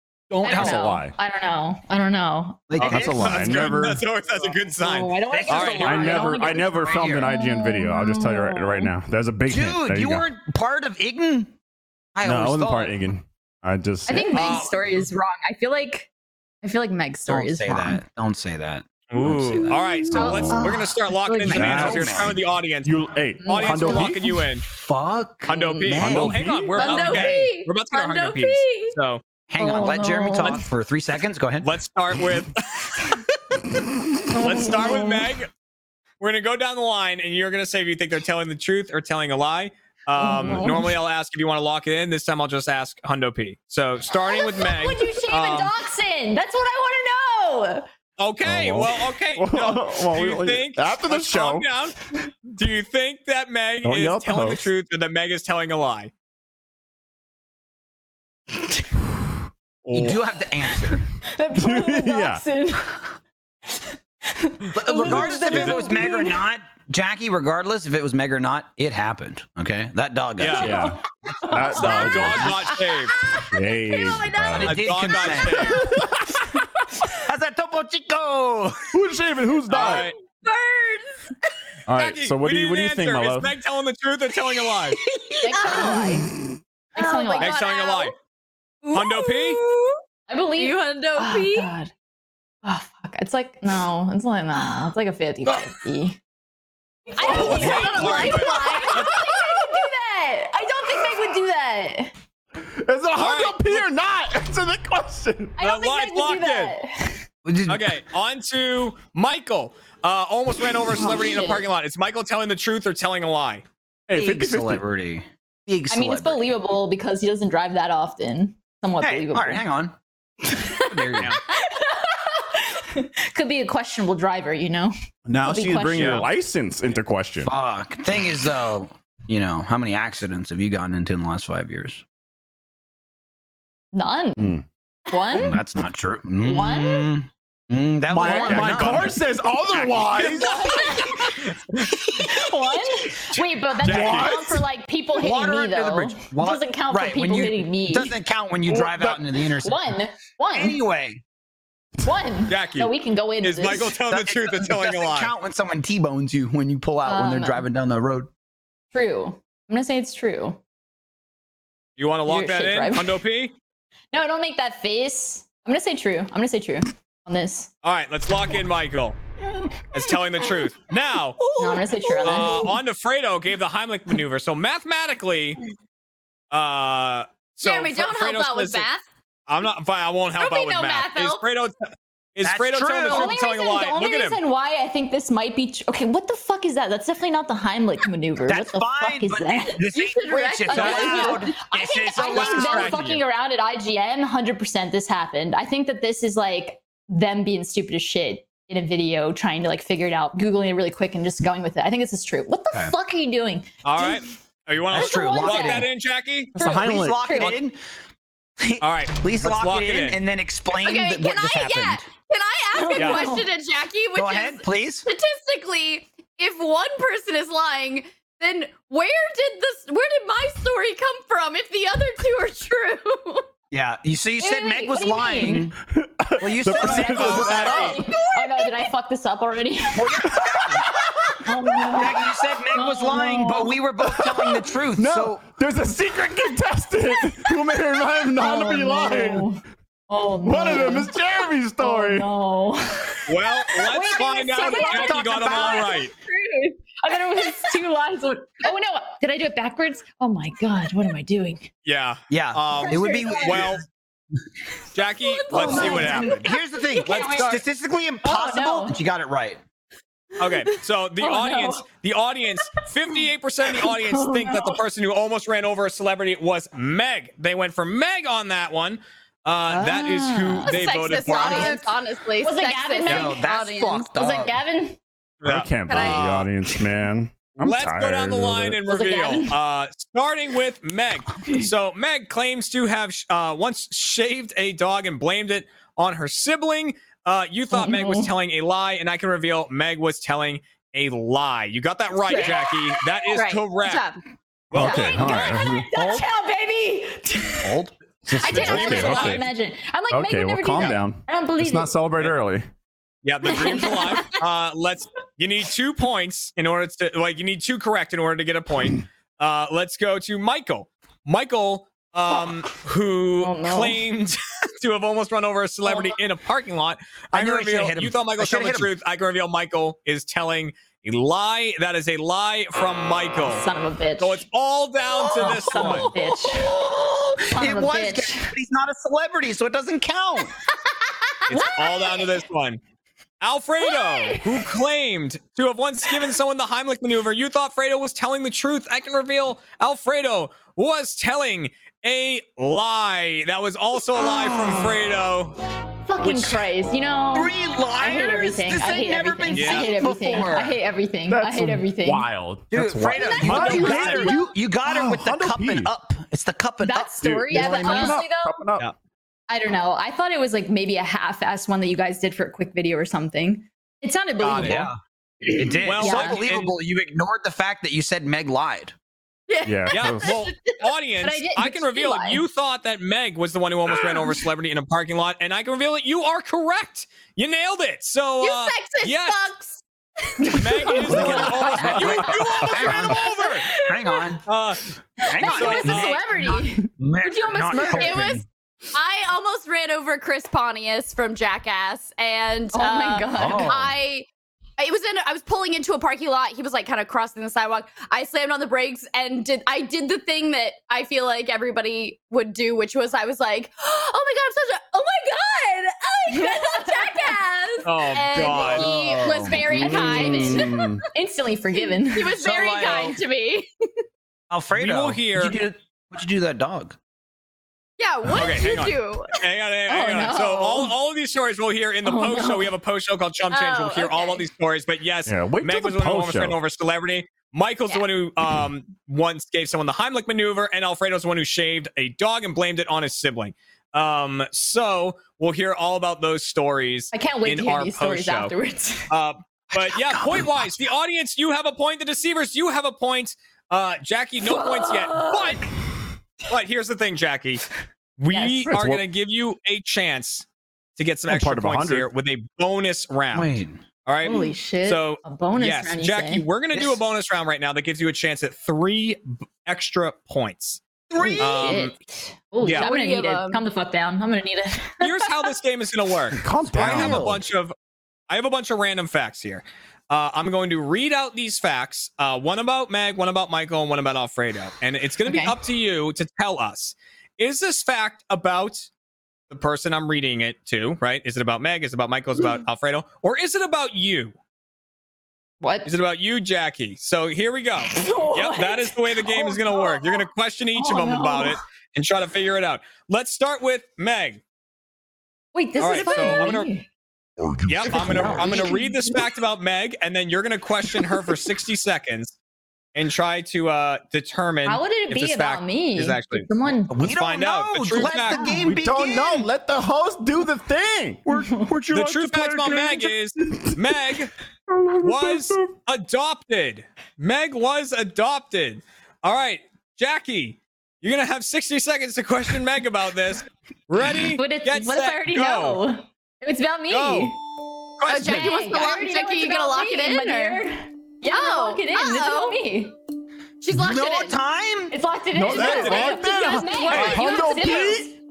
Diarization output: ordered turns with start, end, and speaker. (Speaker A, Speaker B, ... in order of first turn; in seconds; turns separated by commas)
Speaker A: 0.3-0.8, Speaker B: 0.4-1.1, Speaker C: 0.4-2.7, Speaker A: 2.7-3.8, Speaker D: 2.8-6.3, Speaker B: 2.8-4.0, Speaker C: 4.8-8.9, Speaker A: 5.3-7.3, Speaker B: 5.8-10.2, Speaker A: 9.5-11.5, Speaker A: 12.1-12.9, Speaker B: 12.2-14.6, Speaker C: 14.1-16.1, Speaker A: 14.3-14.7, Speaker C: 16.6-18.0, Speaker A: 17.3-22.4, Speaker D: 19.1-24.6, Speaker C: 20.1-21.8, Speaker B: 21.5-24.2, Speaker C: 23.4-24.2, Speaker A: 24.6-27.5, Speaker D: 25.4-29.2, Speaker C: 25.5-25.9, Speaker B: 26.0-26.7, Speaker E: 26.7-28.9, Speaker A: 29.5-31.7, Speaker C: 29.6-30.6, Speaker D: 31.6-33.2, Speaker C: 34.3-35.3, Speaker D: 34.3-35.5, Speaker D: 36.2-45.7, Speaker C: 40.2-40.9, Speaker C: 44.2-47.9, Speaker D: 48.2-56.1, Speaker B: 48.4-51.7, Speaker B: 53.8-54.7, Speaker D: 59.8-60.2, Speaker A: 59.9-61.0, Speaker C: 61.3-63.1, Speaker B: 61.5-62.4, Speaker C: 64.3-66.4, Speaker A: 64.7-71.0, Speaker D: 65.0-65.8, Speaker D: 70.4-70.8, Speaker B: 70.5-72.6, Speaker C: 71.4-74.3, Speaker D: 71.7-73.1, Speaker E: 73.3-74.6, Speaker B: 73.4-74.9, Speaker A: 74.5-75.8, Speaker D: 74.6-75.9, Speaker B: 75.7-76.5, Speaker A: 77.1-78.9, Speaker B: 78.9-80.1, Speaker D: 79.7-80.2, Speaker E: 79.8-81.2, Speaker B: 81.9-83.5, Speaker D: 81.9-85.0, Speaker E: 84.9-86.2, Speaker C: 85.4-86.3, Speaker C: 86.9-87.6, Speaker E: 87.0-88.1, Speaker D: 87.4-88.1, Speaker E: 88.8-90.0, Speaker D: 88.9-89.6, Speaker C: 90.3-91.9, Speaker E: 90.6-91.7, Speaker C: 92.6-96.2, Speaker C: 97.1-102.1, Speaker E: 97.2-99.7, Speaker B: 97.2-98.3, Speaker D: 97.2-99.1, Speaker B: 102.6-105.6, Speaker D: 103.2-103.9, Speaker C: 105.6-107.2, Speaker D: 105.6-106.7, Speaker A: 107.4-107.9, Speaker D: 107.7-113.6, Speaker C: 110.9-111.6, Speaker B: 114.1-114.8, Speaker A: 114.1-116.5, Speaker C: 115.9-119.6, Speaker A: 119.0-119.9, Speaker C: 120.5-126.3, Speaker A: 120.8-121.4, Speaker B: 125.2-127.5, Speaker D: 125.9-126.2, Speaker A: 127.4-132.0, Speaker C: 133.9-135.6, Speaker B: 134.4-134.6, Speaker A: 135.3-139.2, Speaker C: 136.4-137.1, Speaker B: 138.1-140.7, Speaker C: 138.2-138.9, Speaker D: 138.5-139.1, Speaker D: 139.7-142.3, Speaker C: 140.2-141.5, Speaker C: 142.1-148.1, Speaker D: 143.3-144.4, Speaker B: 143.8-144.6, Speaker A: 143.9-144.4, Speaker A: 145.2-149.9, Speaker C: 149.6-150.8, Speaker A: 150.5-151.2, Speaker C: 152.0-153.9, Speaker D: 152.5-155.3, Speaker A: 154.1-158.3, Speaker C: 157.0-157.6, Speaker C: 158.9-160.6, Speaker D: 162.0-163.5, Speaker C: 162.2-163.2, Speaker C: 164.1-167.7, Speaker D: 167.8-169.2, Speaker D: 169.9-171.4, Speaker E: 171.4-172.7, Speaker C: 171.6-172.7, Speaker D: 172.2-175.6, Speaker D: 176.5-178.9, Speaker E: 177.6-179.1, Speaker D: 179.5-184.4, Speaker E: 180.4-181.4, Speaker A: 182.4-183.3, Speaker C: 183.0-204.2, Speaker A: 188.5-193.2, Speaker E: 189.9-191.4, Speaker D: 190.7-191.4, Speaker D: 192.3-193.2, Speaker D: 203.8-206.5, Speaker A: 204.9-205.9, Speaker C: 204.9-205.9, Speaker C: 206.5-207.6, Speaker A: 206.6-207.8, Speaker B: 206.7-207.2, Speaker A: 208.6-212.0, Speaker D: 208.8-210.2, Speaker E: 210.8-223.4, Speaker C: 212.7-213.5, Speaker D: 212.9-213.2, Speaker A: 214.1-215.1, Speaker A: 223.7-225.8, Speaker C: 224.4-225.7, Speaker B: 225.8-228.0, Speaker A: 226.4-228.0, Speaker D: 226.8-228.0, Speaker C: 227.6-230.3, Speaker E: 228.1-228.7, Speaker A: 229.9-231.0, Speaker B: 230.3-231.4, Speaker C: 231.3-233.8, Speaker A: 231.9-235.4, Speaker B: 234.2-239.5, Speaker C: 238.4-241.2, Speaker B: 240.4-242.3, Speaker C: 241.8-251.7, Speaker D: 243.2-246.1, Speaker A: 244.6-246.0, Speaker D: 251.8-253.8, Speaker A: 252.3-253.8, Speaker C: 252.7-253.7, Speaker D: 254.9-256.4, Speaker C: 255.3-257.6, Speaker A: 255.5-259.6, Speaker C: 258.2-259.0, Speaker D: 260.4-271.8, Speaker C: 260.4-261.8, Speaker C: 263.7-264.8, Speaker C: 269.7-271.9, Speaker E: 270.6-274.1, Speaker C: 272.4-273.4, Speaker A: 273.1-274.5, Speaker C: 274.1-275.0, Speaker D: 275.4-276.4, Speaker B: 275.4-278.8, Speaker E: 275.9-276.5, Speaker D: 277.6-294.1, Speaker C: 278.9-279.5, Speaker C: 287.7-288.3, Speaker E: 292.3-292.6, Speaker C: 292.3-292.7, Speaker E: 293.3-294.2, Speaker D: 294.7-295.3, Speaker B: 294.7-295.9, Speaker E: 294.8-295.2, Speaker C: 294.8-297.8, Speaker A: 295.9-296.2, Speaker A: 297.6-297.9, Speaker B: 298.2-299.5, Speaker C: 298.4-302.0, Speaker D: 298.5-299.4, Speaker B: 300.1-302.6, Speaker D: 303.2-323.6, Speaker C: 303.5-304.3, Speaker C: 313.4-314.0, Speaker A: 317.3-318.9, Speaker C: 323.4-324.4, Speaker D: 324.2-326.1, Speaker A: 325.3-330.5, Speaker C: 325.3-326.7, Speaker C: 327.5-328.5, Speaker E: 331.0-332.3, Speaker D: 331.5-332.8, Speaker D: 333.4-345.6, Speaker C: 333.9-334.5, Speaker C: 344.4-344.9, Speaker C: 346.1-352.3, Speaker D: 346.2-346.6, Speaker A: 347.3-350.8, Speaker D: 349.5-349.9, Speaker B: 351.3-355.9, Speaker A: 352.7-358.1, Speaker C: 353.1-354.0, Speaker D: 353.4-354.3, Speaker C: 356.8-358.5, Speaker B: 357.2-358.9, Speaker C: 359.5-364.9, Speaker D: 364.4-364.9, Speaker A: 364.6-368.9, Speaker D: 365.8-366.8, Speaker C: 366.0-366.4, Speaker E: 369.5-370.8, Speaker B: 369.6-370.3, Speaker D: 369.9-379.4, Speaker C: 371.2-372.4, Speaker E: 378.4-381.3, Speaker C: 380.4-382.2, Speaker D: 380.5-383.5, Speaker A: 381.1-384.4, Speaker B: 382.0-382.3, Speaker E: 382.2-384.0, Speaker D: 384.4-384.9, Speaker C: 385.2-388.4, Speaker A: 385.2-388.4, Speaker D: 385.4-386.2, Speaker E: 385.6-386.1, Speaker E: 387.2-394.3, Speaker C: 392.7-393.8, Speaker A: 393.4-394.0, Speaker E: 394.8-411.0, Speaker C: 406.3-407.4, Speaker D: 407.8-408.9, Speaker A: 408.4-409.8, Speaker C: 409.5-412.4, Speaker B: 409.6-411.0, Speaker E: 411.8-413.7, Speaker A: 412.3-413.2, Speaker A: 414.5-417.0, Speaker D: 414.7-415.6, Speaker E: 418.0-419.4, Speaker D: 418.3-438.5, Speaker C: 419.9-420.9, Speaker C: 422.0-422.7, Speaker E: 423.5-424.4, Speaker B: 425.2-426.6, Speaker C: 437.1-439.1, Speaker D: 439.1-445.7, Speaker A: 439.7-440.9, Speaker C: 444.4-445.6, Speaker D: 446.5-447.6, Speaker D: 448.2-453.5, Speaker C: 448.3-448.7, Speaker B: 448.6-449.0, Speaker B: 451.3-452.1, Speaker A: 453.3-453.8, Speaker D: 454.0-460.8, Speaker C: 454.2-456.4, Speaker A: 456.7-457.0, Speaker A: 461.1-461.9, Speaker C: 461.2-465.4, Speaker D: 461.4-461.9, Speaker D: 462.6-462.9, Speaker E: 462.6-463.6, Speaker D: 465.0-467.7, Speaker B: 466.3-467.4, Speaker A: 466.6-467.4, Speaker D: 468.3-478.9, Speaker C: 475.2-475.6, Speaker D: 479.5-484.3, Speaker C: 485.6-485.9, Speaker D: 485.8-494.4, Speaker C: 487.9-491.6, Speaker C: 495.5-496.9, Speaker D: 495.8-496.7, Speaker B: 497.4-498.7, Speaker D: 497.6-502.4, Speaker A: 498.0-498.7, Speaker C: 498.4-499.1, Speaker D: 502.9-506.5, Speaker C: 504.6-507.0, Speaker A: 506.9-509.4, Speaker D: 507.0-508.6, Speaker C: 508.4-508.6, Speaker B: 508.6-514.0, Speaker D: 511.9-514.3, Speaker B: 514.7-515.7, Speaker D: 515.0-525.8, Speaker C: 524.3-527.4, Speaker D: 526.9-527.3, Speaker D: 528.0-528.5, Speaker E: 528.0-530.6, Speaker C: 528.2-532.9, Speaker E: 531.2-532.6, Speaker E: 533.6-534.4, Speaker A: 533.7-534.9, Speaker C: 534.9-538.1, Speaker B: 535.3-538.1, Speaker D: 535.5-536.1, Speaker E: 535.6-537.9, Speaker D: 536.8-537.5